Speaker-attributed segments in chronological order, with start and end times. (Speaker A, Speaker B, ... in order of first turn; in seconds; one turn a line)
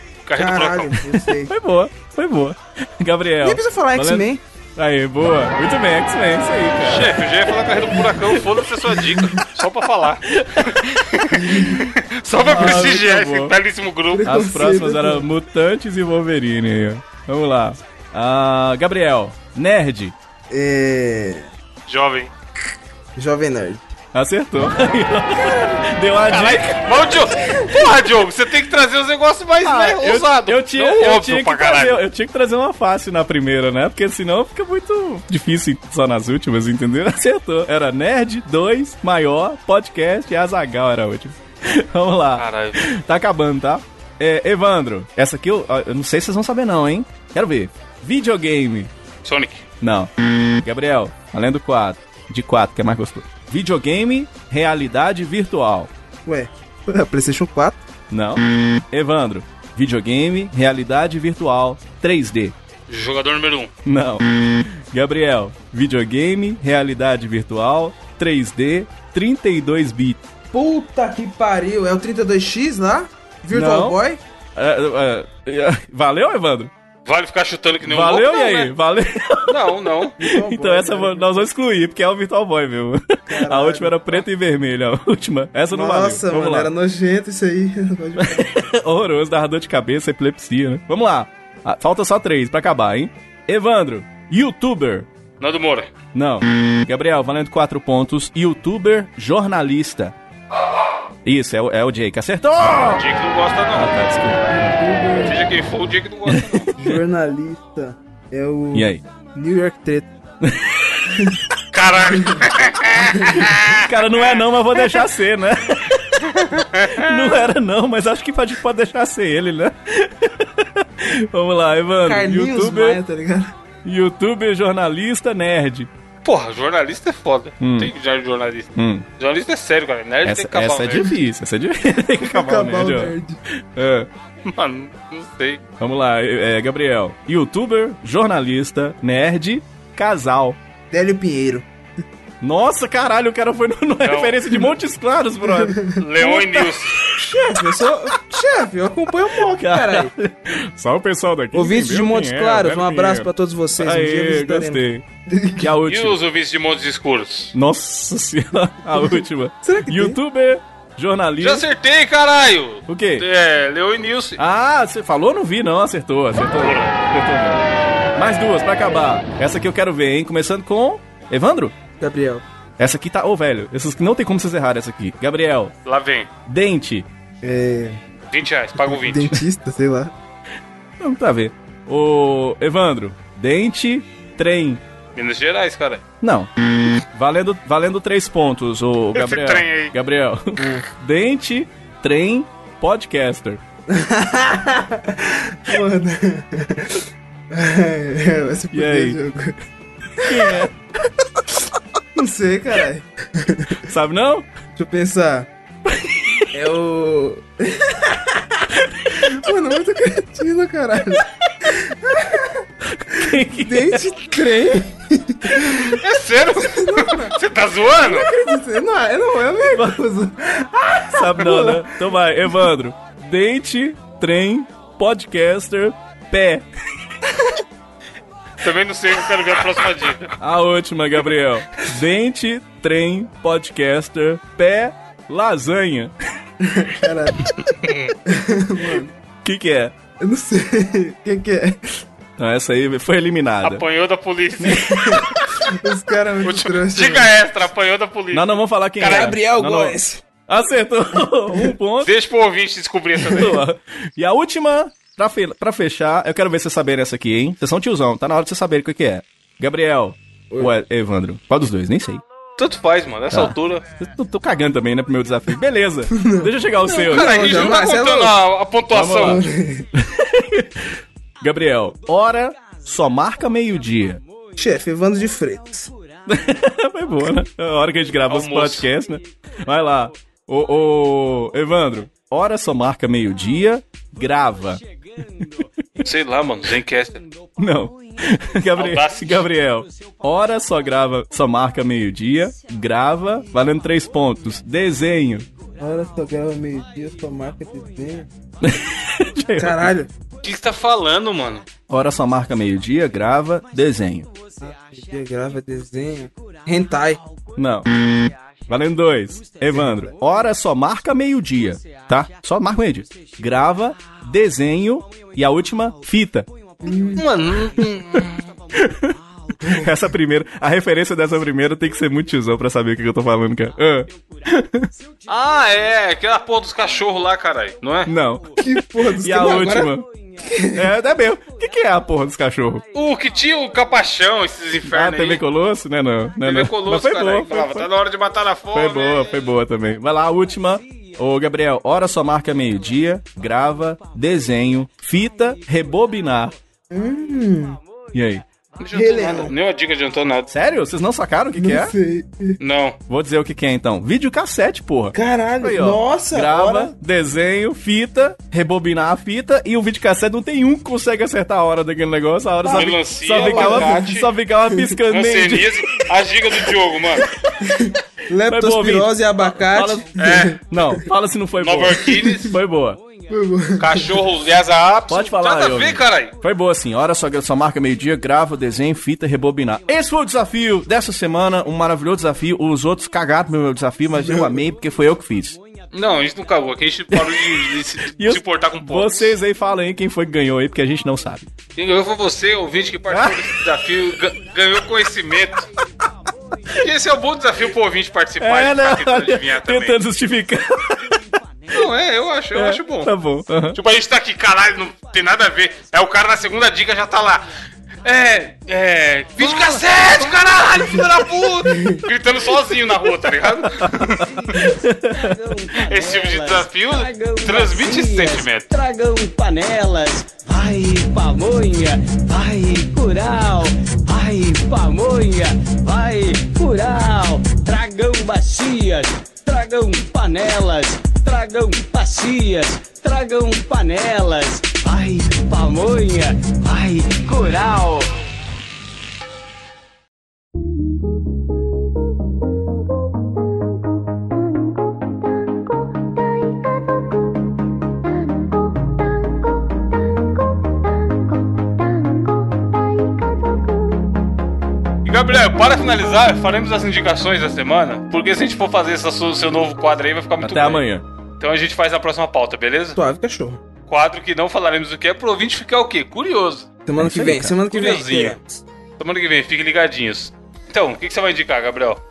Speaker A: 0.2-1.0
Speaker B: 0.3-1.5
Speaker C: 1.5-7.2
Speaker B: 3.4-4.4
Speaker A: 6.8-14.3
Speaker C: 10.3-10.8
Speaker B: 11.3-11.9
Speaker C: 12.4-13.5
Speaker B: 14.1-15.3
Speaker C: 14.2-20.1
Speaker B: 20.5-21.5
Speaker A: 21.9-22.3
Speaker B: 23.1-23.8
Speaker C: 24.1-27.2
Speaker A: 26.3-32.0
Speaker C: 29.6-48.9
Speaker A: 42.4-42.9
Speaker A: 49.2-49.6
Speaker C: 49.8-55.9
Speaker B: 56.2-57.9
Speaker C: 58.1-62.5
Speaker A: 62.9-63.7
Speaker C: 63.8-70.2
Speaker B: 70.5-74.2
Speaker C: 73.5-74.0
Speaker C: 74.5-76.7
Speaker A: 77.0-78.7
Speaker C: 77.8-86.7
Speaker A: 79.5-80.1
Speaker B: 80.2-81.5
Speaker B: 83.3-84.2
Speaker B: 85.7-88.5
Speaker C: 88.2-95.1
Speaker A: 95.4-95.9
Speaker C: 96.1-100.1
Speaker C: 101.2-103.0
Speaker A: 102.9-103.9
Speaker C: 103.7-104.8
Speaker B: 104.5-105.3
Speaker A: 105.2-106.7
Speaker C: 106.3-106.9
Speaker B: 106.8-110.1
Speaker C: 108.7-109.0
Speaker C: 110.4-111.1
Speaker B: 111.1-111.4
Speaker A: 111.7-114.4
Speaker B: 112.1-112.4
Speaker B: 113.1-113.4
Speaker C: 113.6-123.0
Speaker A: 116.4-117.3
Speaker B: 122.0-123.5
Speaker C: 123.8-125.9
Speaker A: 126.2-131.1
Speaker C: 127.6-127.9
Speaker C: 128.8-129.1
Speaker C: 130.2-134.1
Speaker B: 132.2-133.4
Speaker A: 134.4-135.6
Speaker C: 135.8-140.6
Speaker B: 140.9-141.7
Speaker C: 142.4-147.7
Speaker A: 144.0-144.6
Speaker B: 145.4-145.9
Speaker A: 145.9-147.0
Speaker B: 147.2-150.1
Speaker C: 149.4-155.0
Speaker B: 151.5-155.7
Speaker C: 155.6-156.2
Speaker A: 155.8-157.5
Speaker C: 157.5-161.6
Speaker B: 158.9-160.2
Speaker A: 161.4-164.4
Speaker C: 162.9-163.2
Speaker C: 164.4-167.6
Speaker A: 166.6-166.9
Speaker C: 168.2-171.8
Speaker B: 172.0-172.4
Speaker C: 172.8-175.7
Speaker A: 175.8-176.3
Speaker C: 176.5-177.1
Speaker B: 177.4-178.0
Speaker A: 178.3-179.4
Speaker B: 178.8-180.1
Speaker C: 181.0-184.8
Speaker A: 185.2-186.0
Speaker C: 186.2-193.6
Speaker A: 189.1-189.9
Speaker B: 190.6-190.8
Speaker B: 193.9-199.6
Speaker C: 198.7-199.2
Speaker C: 200.2-200.7
Speaker B: 200.2-200.7
Speaker B: 202.1-203.8
Speaker C: 203.8-204.5
Speaker B: 204.7-205.5
Speaker C: 205.9-206.5
Speaker B: 206.5-216.0
Speaker C: 212.9-214.0
Speaker A: 216.0-218.3
Speaker B: 216.6-217.3
Speaker B: 217.9-222.0
Speaker C: 221.1-226.7
Speaker A: 228.6-230.3
Speaker C: 230.4-236.1
Speaker B: 236.6-237.5
Speaker A: 237.6-238.1
Speaker B: 238.2-239.1
Speaker C: 239.4-239.9
Speaker B: 240.2-242.0
Speaker C: 242.4-243.8
Speaker A: 243.6-245.2
Speaker C: 244.6-245.3
Speaker B: 244.9-247.3
Speaker A: 246.4-249.4
Speaker C: 248.3-252.1
Speaker B: 249.0-250.2
Speaker A: 252.0-253.6
Speaker C: 253.3-262.2
Speaker A: 262.6-263.8
Speaker C: 263.3-267.8
Speaker B: 266.1-268.4
Speaker A: 267.0-269.4
Speaker C: 268.9-270.9
Speaker B: 269.2-269.9
Speaker C: 271.4-274.2
Speaker B: 274.6-275.9
Speaker C: 276.3-284.8
Speaker A: 278.3-278.9
Speaker A: 286.0-287.3
Speaker C: 287.6-295.4
Speaker A: 288.8-289.4
Speaker B: 295.8-298.3
Speaker C: 298.6-299.9
Speaker B: 299.6-300.1
Speaker A: 300.4-301.6
Speaker C: 301.9-304.3
Speaker B: 304.6-307.2
Speaker C: 307.6-316.5
Speaker B: 309.7-310.1
Speaker B: 316.8-317.3
Speaker A: 317.2-318.4
Speaker C: 318.7-324.9
Speaker A: 325.3-328.1
Speaker C: 328.1-330.1
Speaker B: 328.6-330.9
Speaker C: 330.7-332.8
Speaker A: 332.9-335.4
Speaker C: 334.9-337.9
Speaker A: 336.4-339.5
Speaker C: 338.7-346.5
Speaker B: 346.9-347.8
Speaker C: 348.1-348.4
Speaker A: 348.8-350.5
Speaker B: 348.9-349.5
Speaker C: 350.5-351.9
Speaker B: 351.5-352.6
Speaker A: 352.6-353.0
Speaker C: 353.1-366.0
Speaker B: 355.1-356.9
Speaker B: 362.6-364.1
Speaker A: 362.7-364.3
Speaker B: 364.7-364.9
Speaker A: 365.1-367.2
Speaker B: 367.6-371.0
Speaker C: 368.5-370.1
Speaker A: 370.2-370.6
Speaker C: 370.6-373.0
Speaker A: 371.6-372.6
Speaker B: 373.3-374.1
Speaker A: 373.8-376.3
Speaker C: 375.1-385.6
Speaker B: 384.1-384.6
Speaker A: 385.9-389.3
Speaker C: 387.1-391.5
Speaker A: 391.8-395.7
Speaker C: 393.1-393.6
Speaker A: 396.7-400.0
Speaker C: 398.4-401.2
Speaker A: 401.7-403.1
Speaker C: 402.5-403.8
Speaker A: 403.7-407.5
Speaker A: 408.0-414.6
Speaker B: 409.4-409.8
Speaker B: 410.7-412.0
Speaker C: 413.6-415.8
Speaker D: 415.3-434.8
Speaker A: 415.7-418.7
Speaker D: 435.3-437.9
Speaker A: 455.0-460.8
Speaker C: 460.4-461.0
Speaker A: 461.4-463.0
Speaker B: 462.9-463.6
Speaker A: 463.9-466.6
Speaker B: 466.9-468.6
Speaker C: 467.0-467.5
Speaker A: 467.7-468.4
Speaker A: 469.0-472.0